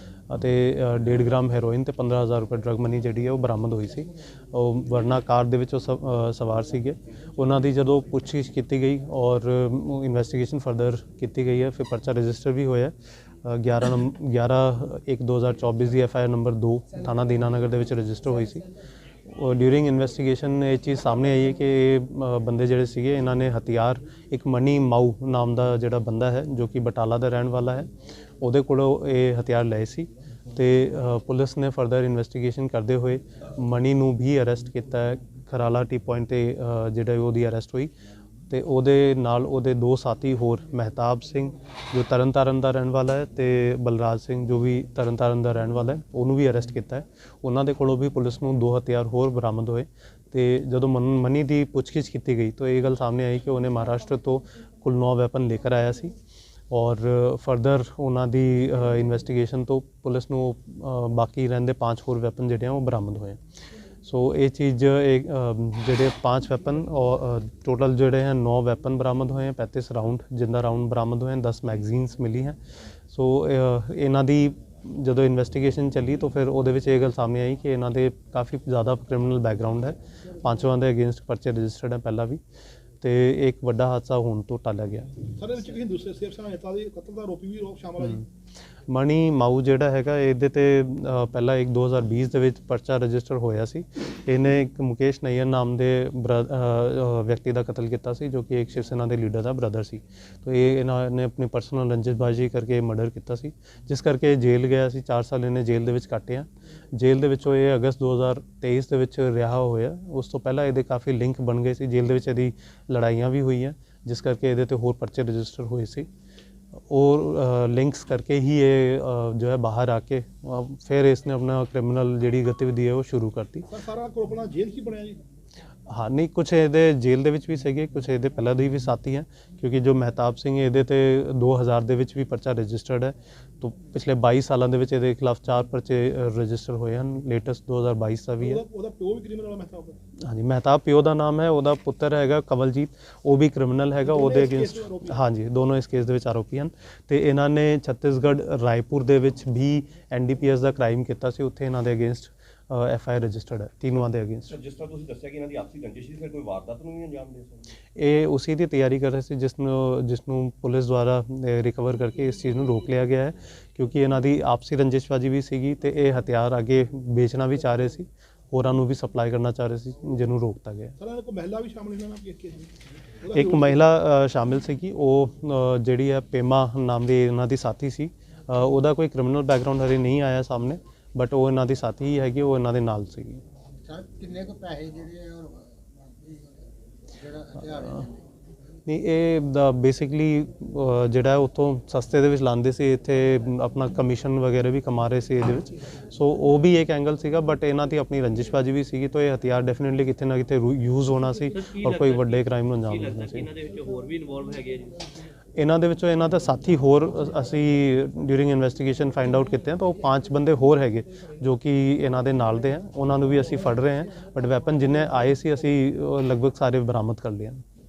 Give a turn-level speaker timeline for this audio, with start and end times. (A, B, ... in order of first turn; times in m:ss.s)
0:00.3-0:12.9 A
0:13.4-0:18.7 A
0:19.3-0:27.9 A
0:28.4-0:37.9 A
0:38.5-0:56.1 A
0:56.7-1:03.4 A
1:04.0-1:12.6 A
1:13.1-1:22.4 A
1:23.0-1:25.1 A
1:25.4-1:28.2 B
1:28.9-1:56.1 A
1:56.9-2:03.7 A
2:03.7-2:05.2 B
2:05.9-2:18.6 A
2:18.4-2:20.0 B
2:20.2-2:34.5 A
2:24.0-2:25.2 B
2:34.5-2:37.7 C
2:38.0-2:50.9 A
2:51.0-2:53.8 B
2:53.3-3:03.4 A
3:03.8-3:08.2 D
3:08.8-3:23.5 A
3:21.5-3:25.0 E
3:25.6-3:37.6 A